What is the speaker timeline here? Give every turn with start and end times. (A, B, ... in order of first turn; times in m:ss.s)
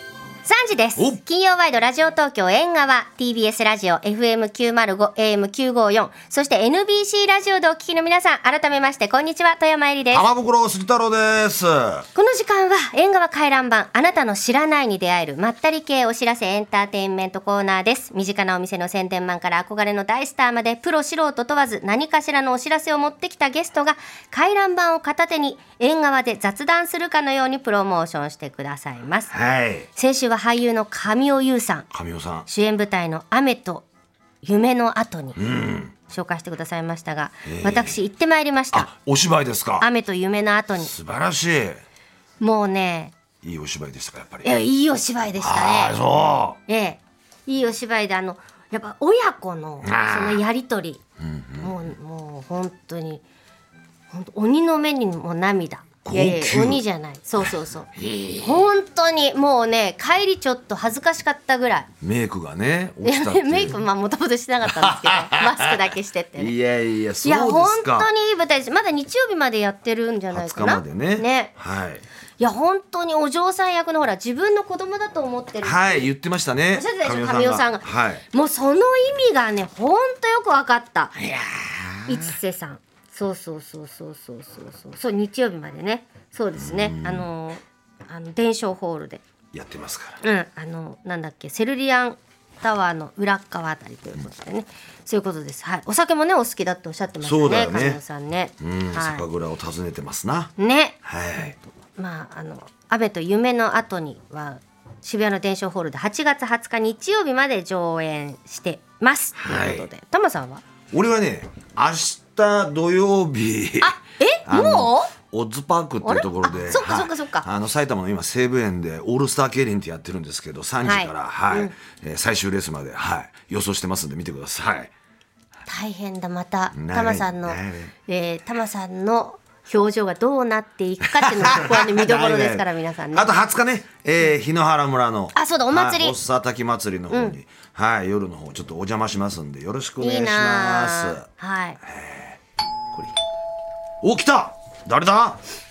0:00.5-0:10.2 A
0:10.1-0:12.0 B
0:12.1-0:29.3 A
0:29.3-0:29.9 B
0:30.0-0:31.8 A
0:31.9-0:32.5 B
0:32.5-0:33.8 A
0:34.4-0:35.4 A
0:35.4-0:35.9 B
0:36.1-0:38.9 A
0:37.4-0:38.0 B
0:38.7-0:39.9 B
0:39.8-0:40.9 A
0:40.8-0:41.8 B
0:42.4-0:43.1 A
0:43.4-0:44.5 B
0:44.4-0:46.0 A
0:45.4-0:46.6 B
0:46.7-0:51.0 A
0:49.8-0:50.4 B
0:51.2-0:51.7 B
0:51.6-0:53.2 A
0:54.1-1:01.9 A
0:56.0-0:56.8 B
0:58.0-0:58.7 B
1:02.0-1:03.8 B
1:03.0-1:06.5 A
1:04.7-1:08.1 B
1:07.2-1:11.5 A
1:10.3-1:12.0 B
1:12.4-1:16.0 A
1:15.6-1:18.2 B
1:16.7-1:21.3 A
1:21.3-1:22.3 B
1:22.0-1:29.2 A
1:26.6-1:27.3 B
1:29.5-1:30.2 B
1:30.2-1:39.2 A
1:37.2-1:38.0 B
1:38.6-1:40.5 B
1:40.6-1:41.0 A
1:41.0-1:41.6 B
1:42.0-1:50.6 A
1:49.4-1:49.9 B
1:50.9-1:53.9 B
1:53.8-1:55.1 A
1:54.5-2:04.9 B
1:56.0-1:57.4 A
2:00.8-2:01.7 A
2:05.7-2:13.3 A
2:06.7-2:07.9 B
2:11.1-2:21.2 B
2:15.3-2:16.2 A
2:17.1-2:17.4 A
2:20.0-2:21.8 A
2:21.9-2:22.4 B
2:24.0-2:25.4 B